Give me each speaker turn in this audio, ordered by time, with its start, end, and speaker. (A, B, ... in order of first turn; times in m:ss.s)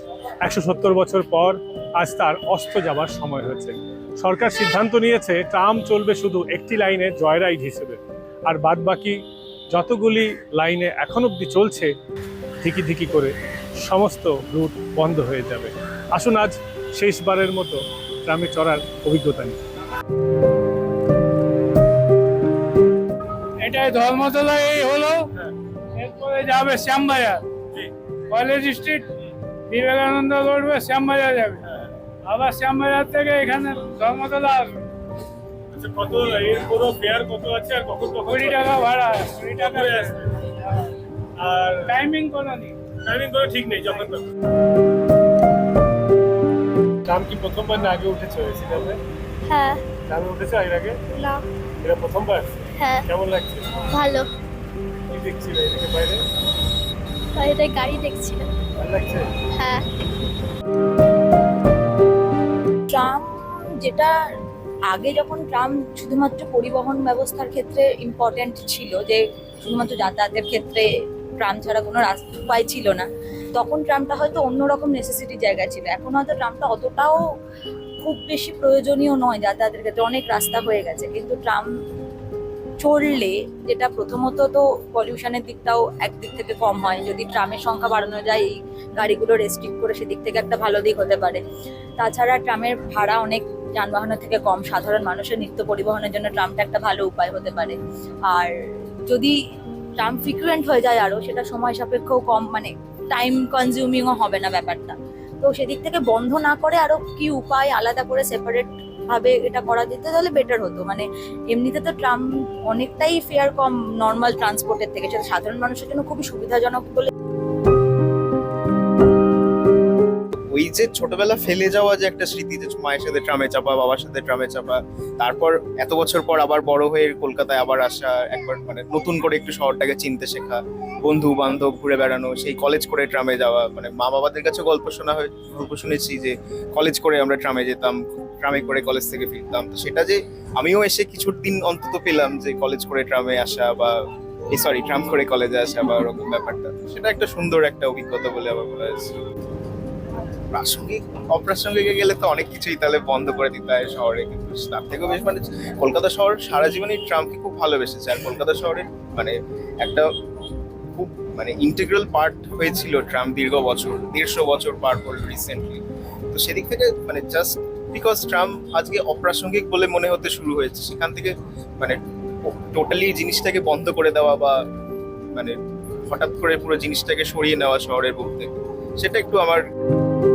0:00.4-0:09.2 A
0:09.7-0:11.9 A
0:12.6-0:19.6 A
0:23.6-0:27.4 B
0:28.3-0:29.1 B
0:29.7-0:34.8 B
0:35.7-0:38.7 A
0:38.3-0:40.2 B
0:39.6-0:40.1 A
0:41.4-0:41.8 A
0:41.8-0:42.8 B
0:43.0-0:44.2 A
0:47.1-0:49.0 A
0:49.5-0:49.8 C
0:50.1-0:51.1 A
0:51.1-0:51.4 C
0:51.8-0:52.5 A
0:52.8-0:53.0 C
0:53.1-0:53.8 A
0:53.9-0:54.3 C
0:55.1-0:56.2 A
0:57.4-0:58.5 C
0:58.8-0:59.2 A
0:59.6-0:59.8 C
1:02.9-1:03.3 D
1:03.8-1:04.1 D
1:04.9-1:10.9 D
1:11.4-1:17.2 D
1:18.0-1:21.7 D
1:22.8-1:31.4 D
1:32.0-1:37.8 D
1:39.1-1:39.4 D
1:40.0-1:57.1 D
2:00.5-2:24.0 E
2:24.5-2:29.1 E
2:30.5-2:40.1 E
2:41.0-2:54.6 E
2:55.3-2:59.6 E